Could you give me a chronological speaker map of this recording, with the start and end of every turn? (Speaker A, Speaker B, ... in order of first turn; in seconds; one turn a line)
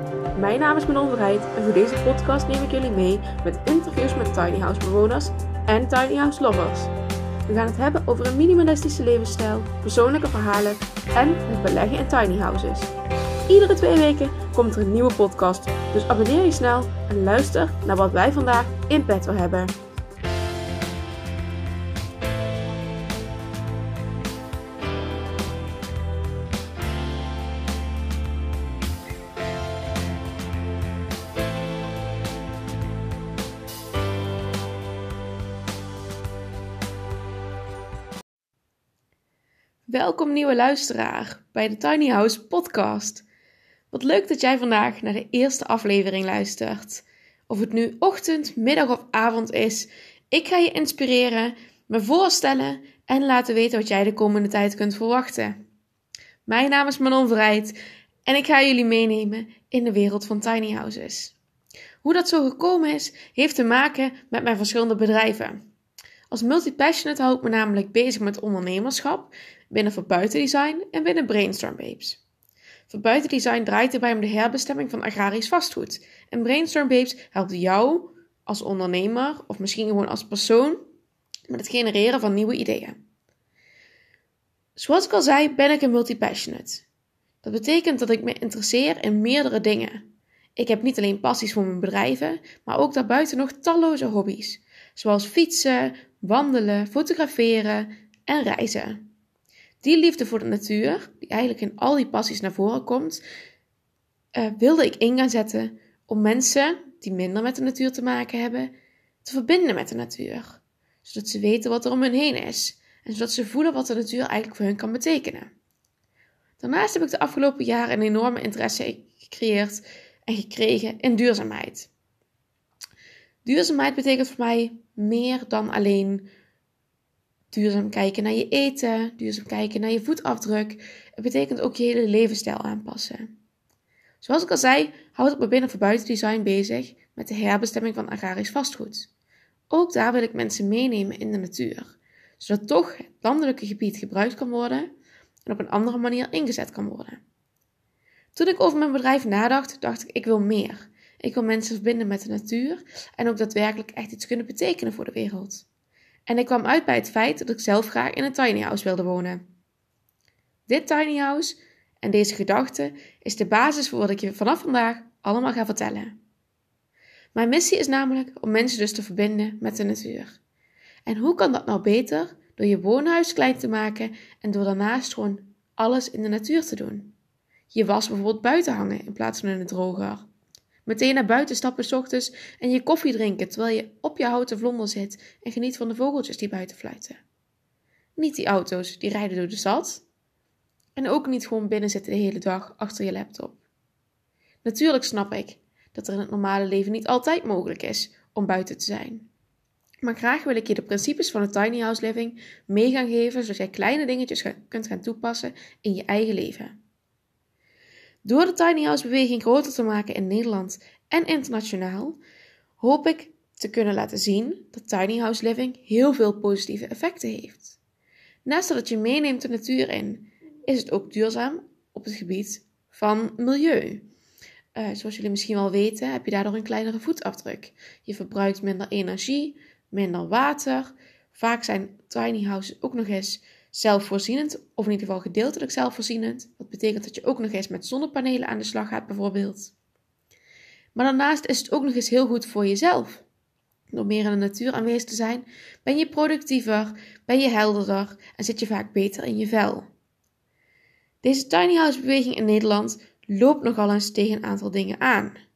Speaker A: 0.3-6.9
Speaker A: 7.5-12.9
Speaker A: 13.5-19.7
Speaker A: 39.9-43.2
Speaker A: 43.9-55.6
Speaker A: 56.5-61.4
Speaker A: 62.0-65.6
Speaker A: 66.3-72.2
Speaker A: 72.9-80.8
Speaker A: 81.5-83.0
Speaker A: 84.8-86.8
Speaker A: 87.4-90.0
Speaker A: 90.6-99.1
Speaker A: 99.8-103.2
Speaker A: 104.3-115.5
Speaker A: 116.6-121.9
Speaker A: 123.4-126.3
Speaker A: 127.5-133.3
Speaker A: 134.2-139.1
Speaker A: 139.7-144.9
Speaker A: 145.5-147.2
Speaker A: 148.3-155.7
Speaker A: 156.3-159.4
Speaker A: 160.7-166.2
Speaker A: 167.3-170.4
Speaker A: 171.1-177.2
Speaker A: 177.7-180.3
Speaker A: 180.9-187.2
Speaker A: 188.2-190.1
Speaker A: 191.0-193.6
Speaker A: 194.6-199.3
Speaker A: 200.0-206.8
Speaker A: 208.2-212.2
Speaker A: 212.8-217.8
Speaker A: 218.4-224.1
Speaker A: 224.8-239.7
Speaker A: 240.9-243.2
Speaker A: 243.9-249.9
Speaker A: 251.2-255.4